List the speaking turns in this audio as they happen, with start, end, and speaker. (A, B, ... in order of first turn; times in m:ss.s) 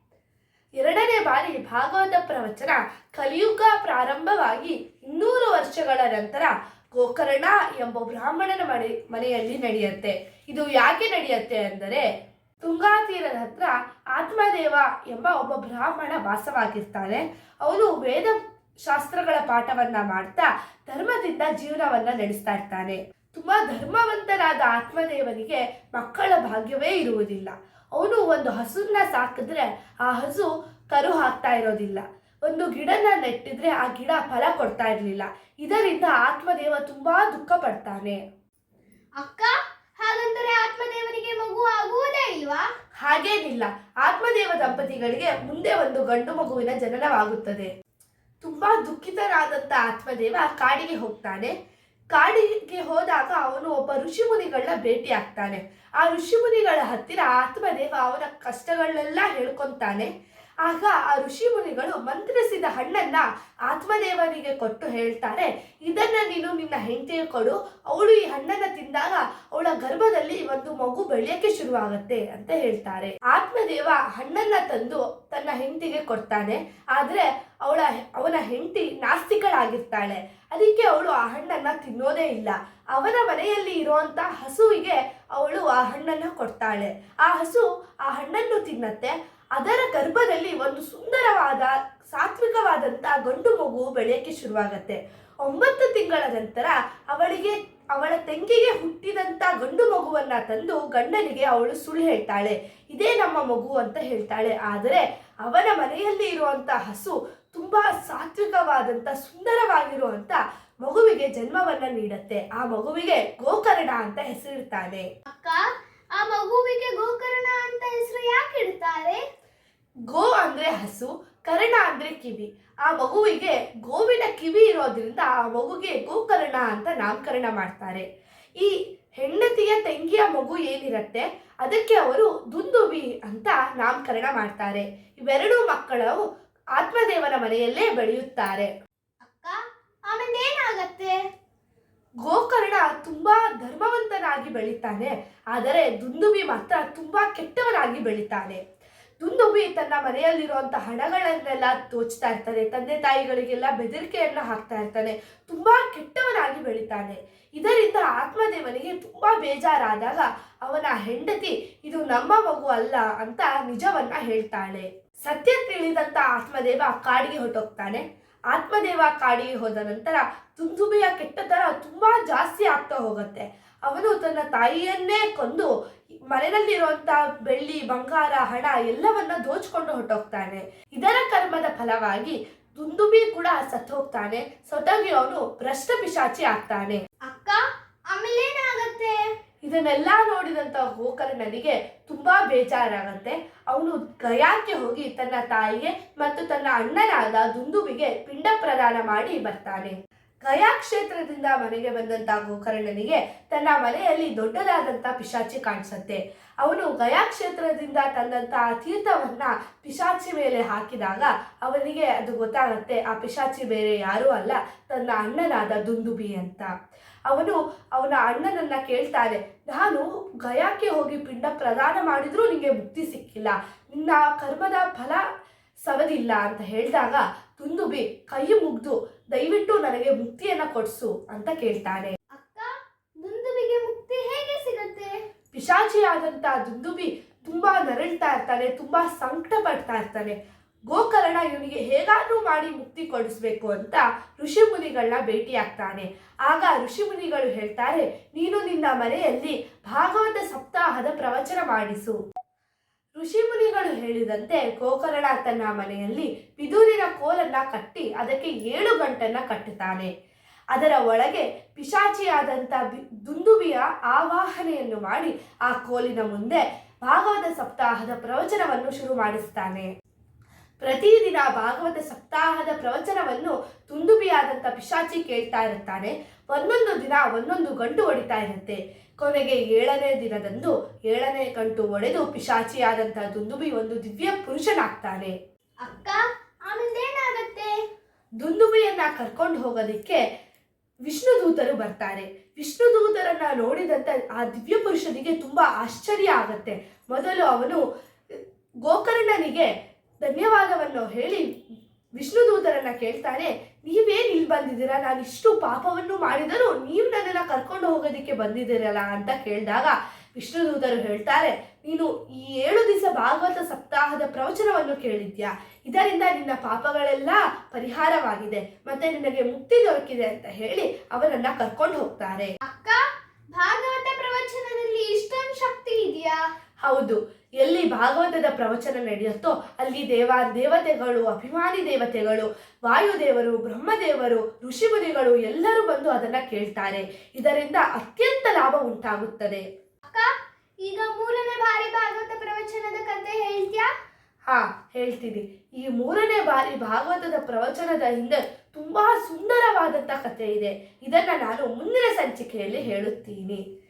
0:00.8-0:12.0 A
0:12.6-0:38.2 A
0:39.2-0:42.6 B
0:43.0-0:47.7 A
0:48.4-0:51.5 A
0:52.1-1:00.1 A
1:00.6-1:55.1 A
1:55.3-1:59.2 B
2:00.1-2:08.0 A
2:08.6-2:16.2 A
2:16.8-2:18.7 A
2:19.2-2:19.6 B
2:20.1-2:21.2 B
2:22.2-2:28.6 A
2:29.2-2:55.7 A
2:56.3-3:07.0 A
3:07.2-3:09.1 B
3:09.6-3:36.7 A
3:37.3-3:45.2 A
3:45.8-3:52.1 A
3:52.3-3:52.7 B
3:53.2-3:55.1 B
3:55.5-4:00.4 A
4:00.9-4:12.2 A
4:13.2-4:20.1 A
4:20.7-4:29.9 A
4:30.8-4:45.3 A
4:45.8-4:47.7 B
4:48.4-4:50.2 A
4:51.0-4:59.7 A
5:00.2-5:01.5 A
5:02.2-5:22.5 A
5:22.7-5:23.0 B
5:23.5-5:26.4 B
5:26.8-5:39.6 A
5:40.8-5:43.9 B
5:44.5-5:53.6 A